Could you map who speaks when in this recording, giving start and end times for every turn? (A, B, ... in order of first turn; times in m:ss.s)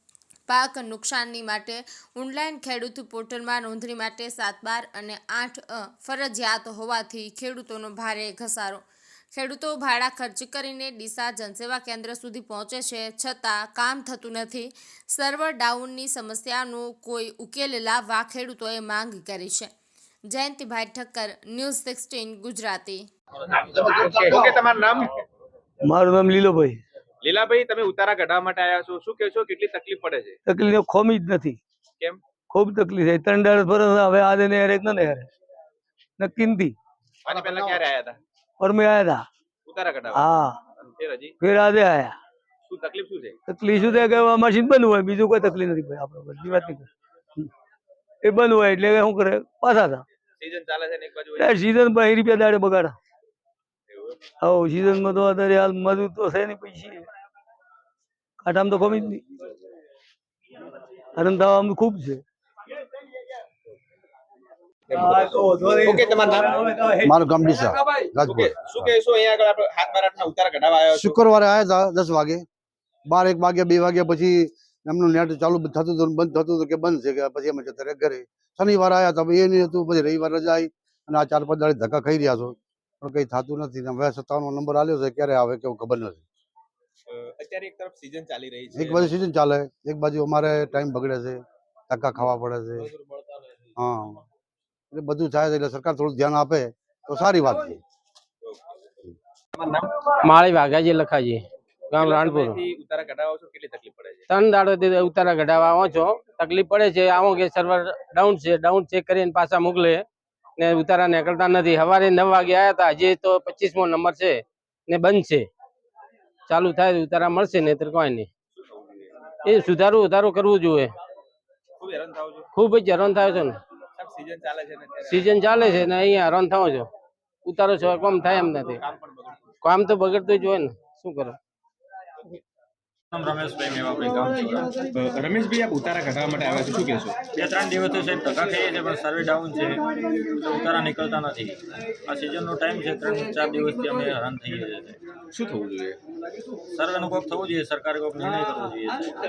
0:00.5-0:19.7 A
0:20.3-0:23.1 A
0:23.5-0:25.2 B
0:25.8-0:26.8 C
0:27.2-0:30.4 B
0:30.5-0:31.6 C
0:32.5-0:35.3 C
0:36.2-0:36.8 C
0:37.2-0:38.2 B
0:38.6-0:39.2 C
0:39.7-0:41.4 B
0:40.1-0:40.6 C
0:41.4-0:42.2 C
0:42.7-0:43.4 B
0:43.5-0:47.5 C
0:48.2-0:50.0 C
0:50.4-0:51.6 B
0:51.4-0:52.9 C
0:53.9-0:54.2 B
0:54.4-0:57.0 C
0:58.4-0:59.2 C
1:01.1-1:02.2 C
1:04.9-1:07.0 B
1:05.0-1:06.9 C
1:07.0-1:08.9 D
1:07.7-1:11.2 B
1:10.9-1:12.4 D
1:13.1-1:26.2 D
1:27.1-1:29.1 B
1:28.7-1:32.9 D
1:33.8-1:34.2 D
1:34.9-1:37.8 D
1:38.4-1:38.7 B
1:39.5-1:40.0 B
1:40.2-1:42.6 E
1:41.9-1:44.3 B
1:44.3-1:50.0 E
1:50.6-1:55.5 E
1:56.5-1:58.3 E
1:58.6-1:59.1 B
1:59.4-2:00.9 E
2:01.8-2:02.5 B
2:02.5-2:03.6 E
2:04.0-2:05.4 B
2:05.0-2:06.9 E
2:07.4-2:08.8 E
2:08.2-2:09.5 B
2:09.6-2:11.4 E
2:13.1-2:14.7 F
2:14.9-2:17.2 B
2:17.3-2:25.0 F
2:25.3-2:26.0 B
2:26.7-2:29.2 F